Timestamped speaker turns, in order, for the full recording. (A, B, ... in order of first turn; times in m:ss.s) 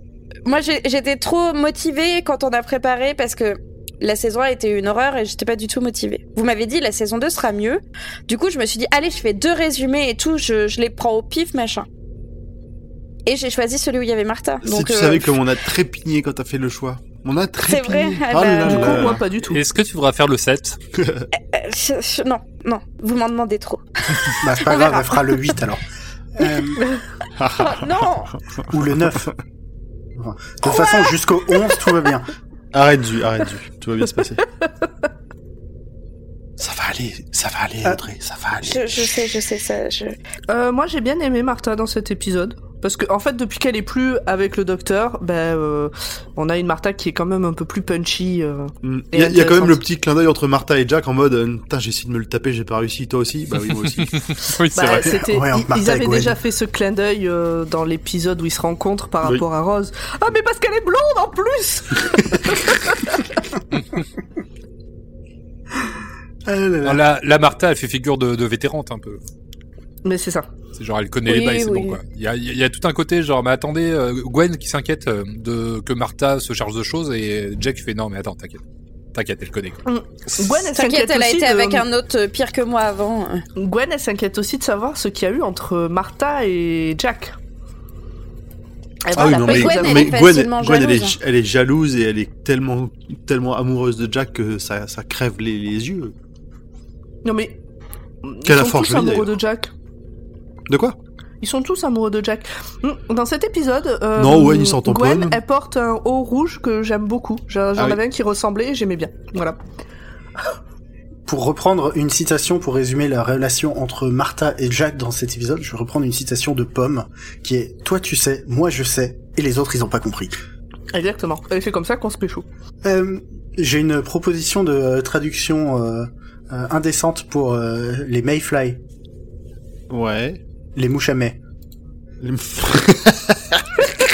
0:00.4-0:11.9 A
0:13.2-0:15.3 A
0:14.6-0:19.2 B
0:17.6-0:19.2 A
0:18.6-0:19.6 C
0:19.5-0:20.8 D
0:21.0-0:21.3 B
0:21.3-0:25.4 A
0:24.4-0:26.8 E
0:27.4-0:27.9 B
0:27.6-0:28.3 A
0:28.7-0:29.3 E
0:30.1-0:32.3 E
0:32.7-0:34.4 B
0:36.6-0:38.9 B
0:38.6-0:40.2 A
0:40.5-0:49.8 C
0:48.8-0:54.2 B
0:53.7-0:55.2 D
0:54.7-1:03.3 C
0:55.1-0:56.4 E
1:06.4-1:07.0 E
1:06.8-1:09.2 D
1:10.0-1:10.5 C
1:10.7-1:18.6 D
1:11.2-1:12.0 A
1:19.1-1:19.8 D
1:19.8-1:21.8 C
1:20.6-1:23.4 A
1:23.6-1:27.4 C
1:29.0-1:30.2 C
1:29.1-1:36.1 B
1:29.4-1:31.2 A
1:37.2-1:37.6 C
1:38.2-1:39.7 C
1:38.4-1:39.3 B
1:40.7-1:41.0 B
1:41.4-1:49.6 C
1:44.2-1:45.4 B
1:51.2-2:00.3 E
2:00.9-2:02.4 C
2:02.8-2:08.8 E
2:09.9-2:10.4 B
2:10.7-2:11.4 E
2:12.2-2:13.8 B